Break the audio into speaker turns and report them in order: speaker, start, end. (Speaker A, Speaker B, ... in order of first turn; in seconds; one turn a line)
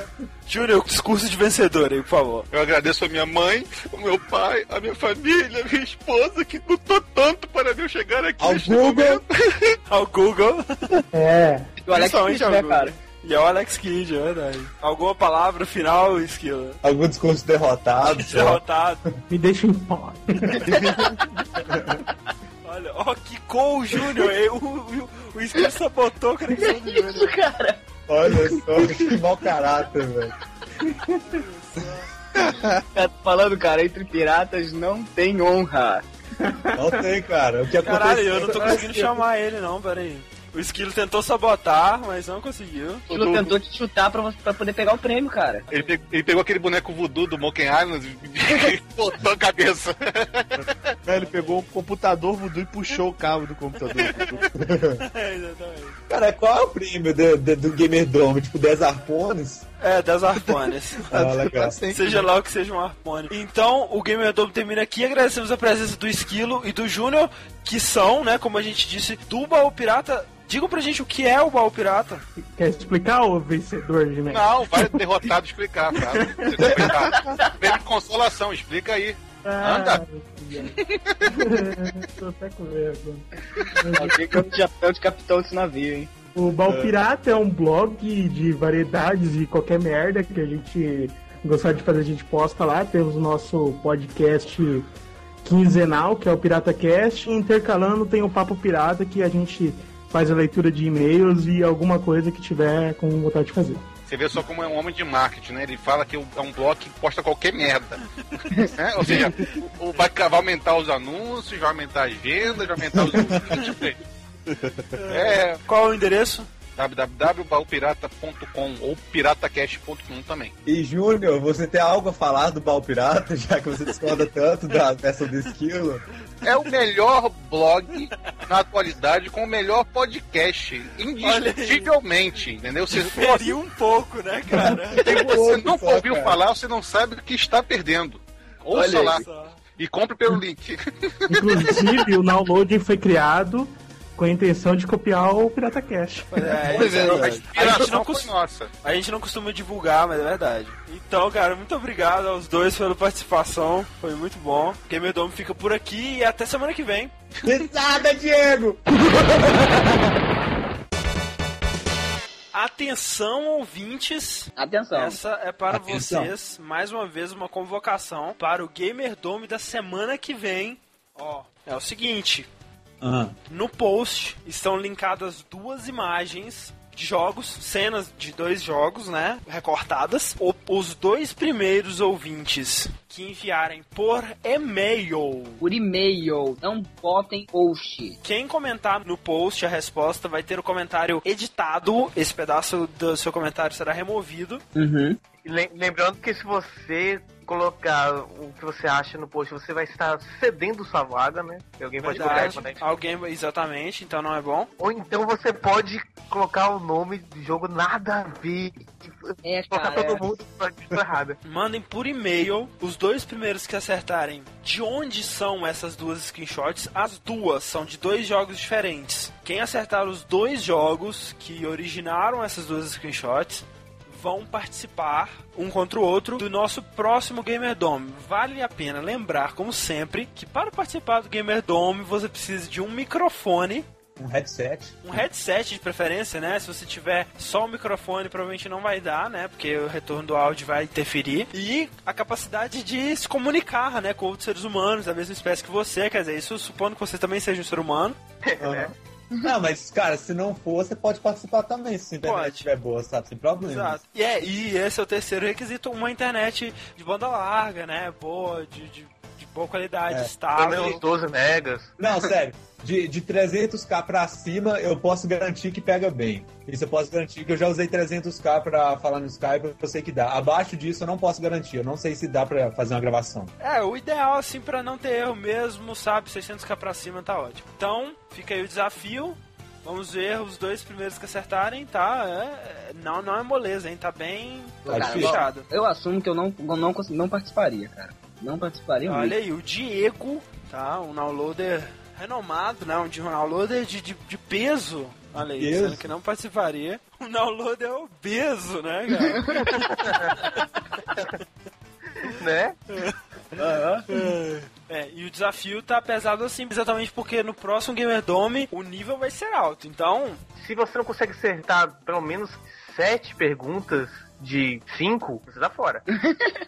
Speaker A: 0.5-2.5
Speaker B: 2.5-9.6
Speaker C: 8.4-9.2
Speaker A: 9.9-11.0
Speaker D: 11.1-11.7
Speaker E: 11.8-12.9
Speaker A: 11.9-16.8
Speaker C: 16.8-18.6
Speaker A: 18.0-19.0
Speaker D: 19.3-21.2
Speaker A: 22.6-27.4
Speaker E: 26.6-27.8
Speaker C: 28.1-30.3
Speaker D: 30.8-31.4
Speaker A: 31.3-32.1
Speaker F: 31.9-32.8
Speaker E: 32.9-36.0
Speaker D: 36.4-37.1
Speaker C: 36.7-39.1
Speaker A: 37.8-43.4
Speaker D: 38.5-38.8
Speaker E: 43.1-45.7
Speaker B: 45.7-50.9
Speaker F: 51.0-54.5
Speaker A: 51.1-51.6
Speaker A: 54.0-56.0
Speaker C: 54.5-55.0
Speaker C: 56.1-59.6
Speaker A: 59.8-61.1
Speaker C: 61.1-61.8
Speaker F: 61.1-62.3
Speaker A: 61.9-72.2
Speaker D: 72.5-75.1
Speaker B: 74.3-80.0
Speaker D: 75.9-77.0
Speaker E: 76.9-77.7
Speaker D: 79.4-84.3
Speaker B: 80.6-81.2
Speaker E: 83.9-86.1
Speaker D: 86.3-94.9
Speaker D: 95.4-103.8
Speaker B: 104.0-108.0
Speaker B: 108.8-114.0
Speaker C: 112.9-113.5
Speaker F: 114.5-114.9
Speaker A: 115.0-116.5
Speaker B: 115.1-115.6
Speaker B: 116.8-120.5
Speaker C: 120.6-126.0
Speaker B: 126.4-133.5
Speaker A: 131.2-131.9
Speaker A: 132.9-135.2
Speaker C: 134.5-136.4
Speaker B: 135.0-141.8
Speaker E: 138.7-139.2
Speaker A: 139.1-139.6
Speaker D: 141.3-146.6
Speaker A: 146.3-148.3
Speaker F: 146.7-147.5
Speaker B: 146.8-148.7
Speaker C: 146.8-147.3
Speaker A: 148.8-157.1
Speaker C: 157.4-160.0
Speaker A: 162.5-172.5
Speaker E: 164.6-165.2
Speaker C: 165.7-166.3
Speaker C: 173.0-173.3
Speaker A: 173.5-185.6
Speaker E: 185.6-188.2
Speaker A: 188.2-194.6
Speaker E: 194.7-195.2
Speaker G: 195.4-202.8
Speaker A: 202.0-204.7
Speaker G: 204.8-211.4
Speaker E: 209.4-210.2
Speaker A: 211.4-233.8
Speaker C: 234.2-235.2
Speaker A: 235.0-248.2
Speaker G: 248.4-248.9
Speaker C: 248.6-254.0
Speaker A: 252.2-252.7
Speaker A: 253.6-261.0
Speaker G: 260.6-261.9
Speaker C: 262.0-273.5
Speaker A: 273.6-285.6
Speaker E: 284.9-289.3
Speaker C: 284.9-285.4
Speaker A: 289.0-300.6
Speaker C: 295.6-296.0
Speaker E: 299.1-299.7
Speaker G: 299.7-300.4
Speaker G: 302.2-302.8
Speaker A: 302.9-303.2
Speaker E: 303.6-304.2
Speaker A: 304.1-310.4
Speaker G: 310.6-316.0
Speaker E: 316.2-316.6